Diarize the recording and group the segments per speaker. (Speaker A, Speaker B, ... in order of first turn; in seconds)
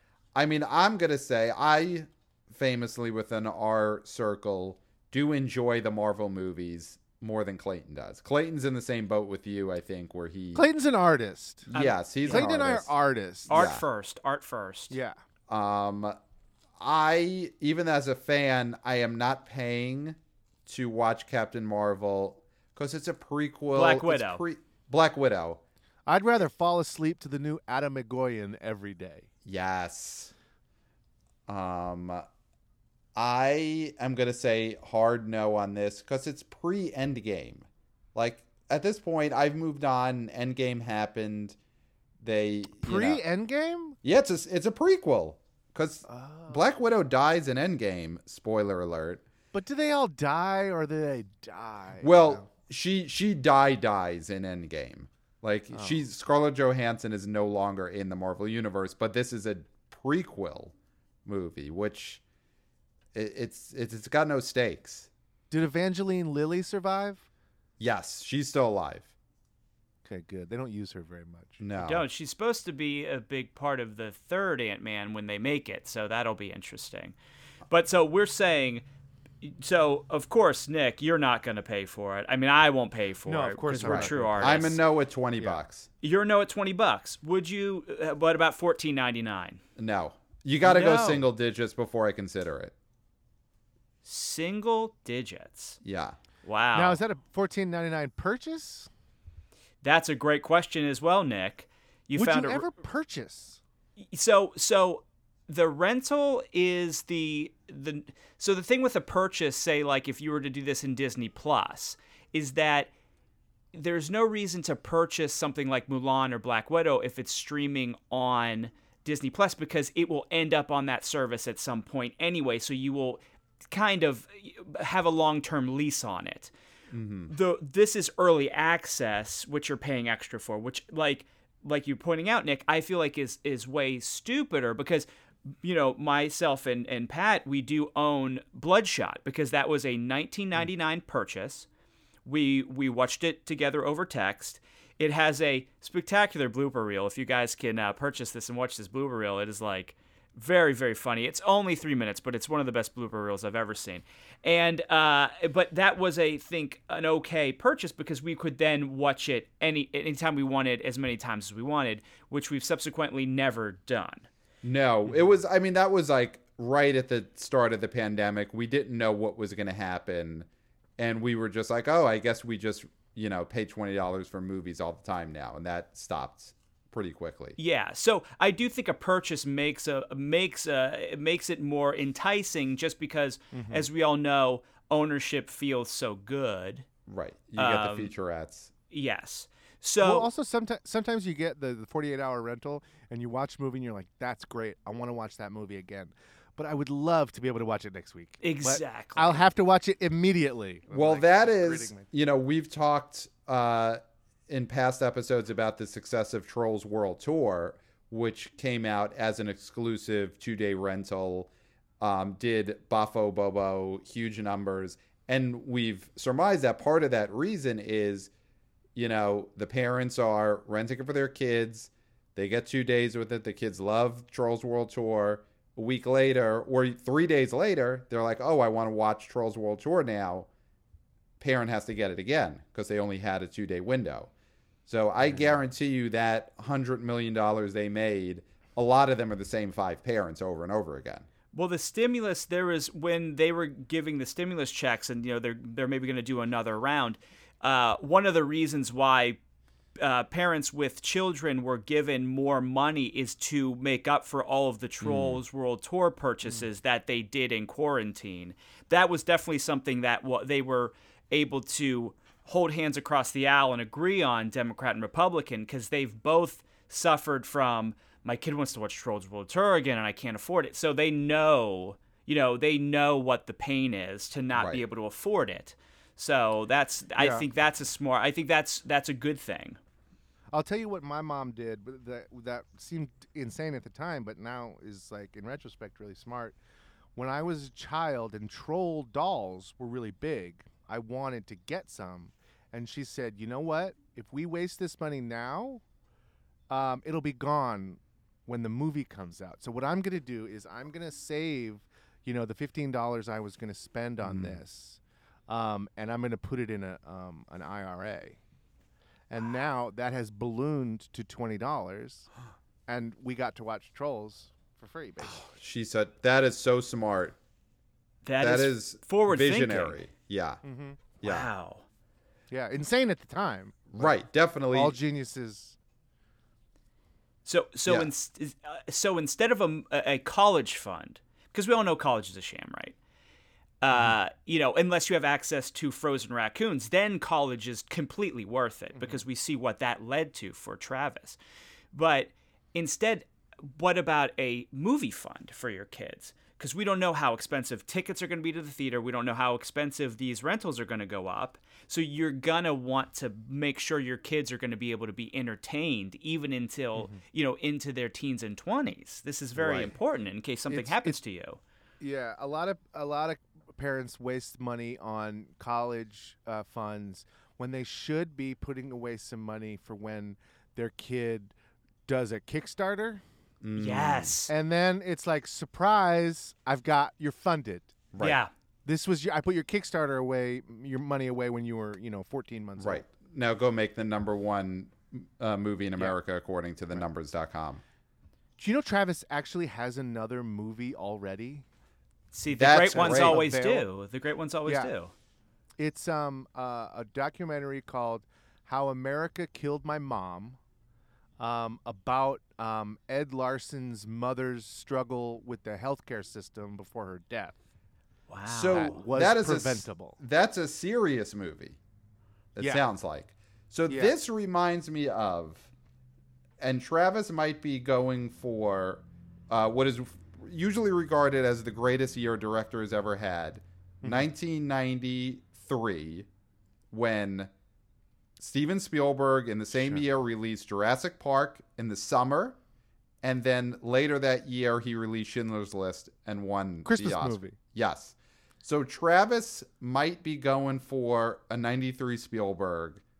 Speaker A: 0.3-10.7, 11.7-12.9, 13.5-13.8, 15.5-16.2, 16.8-25.6, 29.4-30.3, 31.5-32.2, 33.2-41.6, 42.2-43.2, 44.0-49.2, 52.0-60.7, 61.2-62.2, 63.1-65.1, 67.8-69.1, 71.6-72.0, 83.8-85.9, 89.8-92.7, 95.8-96.2, 126.9-127.3, 164.6-170.5, 171.0-177.6, 187.1-188.7, 200.9-218.3, 219.0-230.5, 231.4-234.3, 234.9-241.3, 255.0-255.4, 274.6-274.8, 304.2-304.6, 315.2-317.4, 318.4-320.6, 321.2-321.5, 323.9-325.0, 359.6-359.9, 373.6-374.3, 378.1-378.4, 382.8-387.8, 392.6-393.4, 408.5-411.8, 412.6-415.7, 416.6-426.3, 426.9-427.5, 428.4-432.6, 433.2-443.0
Speaker B: 10.6-11.7, 12.2-13.6, 14.9-15.2, 26.1-29.3, 42.8-44.0, 46.1-46.7, 49.5-52.5, 55.7-56.0, 65.5-67.3, 70.0-71.6, 83.3-84.8, 96.7-98.9, 102.2-103.6, 183.5-183.9, 190.0-202.1, 277.2-277.4, 280.5-286.6, 287.2-295.8, 296.7-308.4, 309.3-312.3, 312.9-315.4, 320.6-321.0, 322.5-324.1, 324.7-325.8, 360.7-361.2, 362.0-371.5, 372.1-373.2, 374.5-378.0, 378.9-383.1, 388.6-391.6, 392.9-393.9, 394.7-394.9, 395.8-400.6, 401.4-407.6, 408.7-410.2, 413.9-414.1, 424.0-424.3, 429.8-430.0, 436.9-437.6
Speaker C: 11.7-12.4, 13.5-15.0, 23.7-24.4, 71.8-77.2, 77.7-78.8, 79.4-84.8, 86.0-89.6, 90.6-91.3, 94.0-95.8, 96.4-97.0, 99.8-102.7, 104.1-112.9, 113.7-126.5, 127.3-135.1, 135.6-141.7, 142.2-164.3, 177.6-186.9, 187.6-188.1, 188.9-190.3, 198.4-199.4, 241.5-249.4, 250.0-279.8, 318.2-320.0, 321.2-321.9, 327.4-333.0, 333.8-341.4, 341.9-361.6, 373.8-374.5, 378.2-378.5, 392.3-395.1, 408.3-409.0